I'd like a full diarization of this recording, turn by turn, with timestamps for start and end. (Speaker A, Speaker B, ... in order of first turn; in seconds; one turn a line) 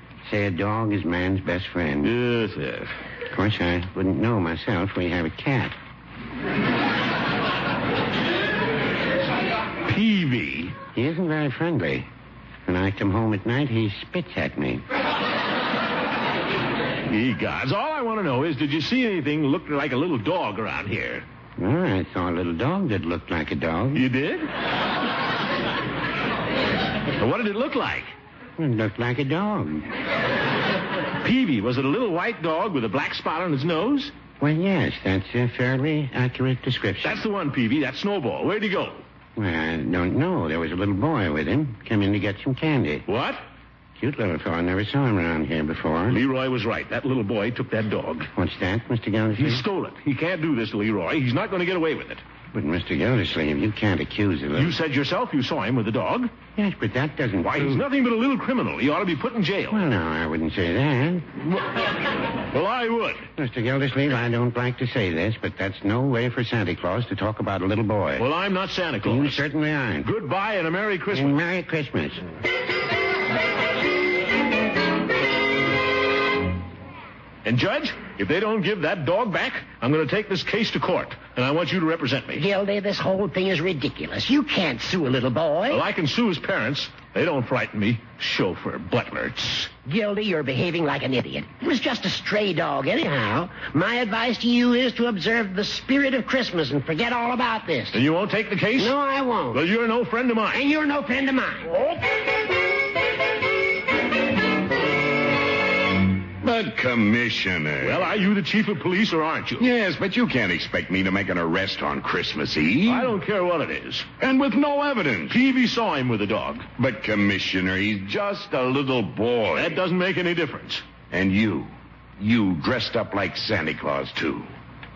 Speaker A: 0.2-2.1
Speaker B: 2.0-2.9
Speaker A: 3.3-5.8
Speaker B: 9.8-10.8
Speaker A: 10.9-12.1
Speaker A: 12.7-14.8
Speaker B: 17.1-21.2
Speaker A: 21.6-24.1
Speaker B: 23.9-24.5
Speaker B: 27.2-28.1
Speaker A: 28.6-29.9
Speaker B: 31.2-34.1
Speaker A: 34.4-37.2
Speaker B: 37.0-39.0
Speaker A: 39.4-43.0
Speaker B: 43.1-43.4
Speaker A: 44.0-46.2
Speaker B: 46.1-48.3
Speaker A: 48.4-49.6
Speaker B: 49.4-52.2
Speaker A: 52.5-54.8
Speaker B: 54.5-56.3
Speaker A: 56.5-57.8
Speaker B: 57.4-59.8
Speaker A: 59.7-61.3
Speaker B: 62.5-63.3
Speaker A: 63.4-68.3
Speaker B: 68.2-69.4
Speaker A: 69.0-70.1
Speaker B: 70.0-71.4
Speaker A: 71.1-72.2
Speaker B: 77.4-82.5
Speaker C: 82.3-85.8
Speaker B: 85.7-89.7
Speaker C: 89.8-98.0
Speaker B: 97.9-98.9
Speaker C: 98.8-99.6
Speaker B: 99.5-100.6
Speaker C: 100.5-101.7
Speaker D: 106.4-108.1
Speaker B: 107.8-109.7
Speaker D: 109.6-113.1
Speaker B: 112.8-114.1
Speaker D: 114.2-115.4
Speaker B: 115.3-116.7
Speaker D: 116.8-119.8
Speaker B: 119.5-120.8
Speaker D: 121.1-124.5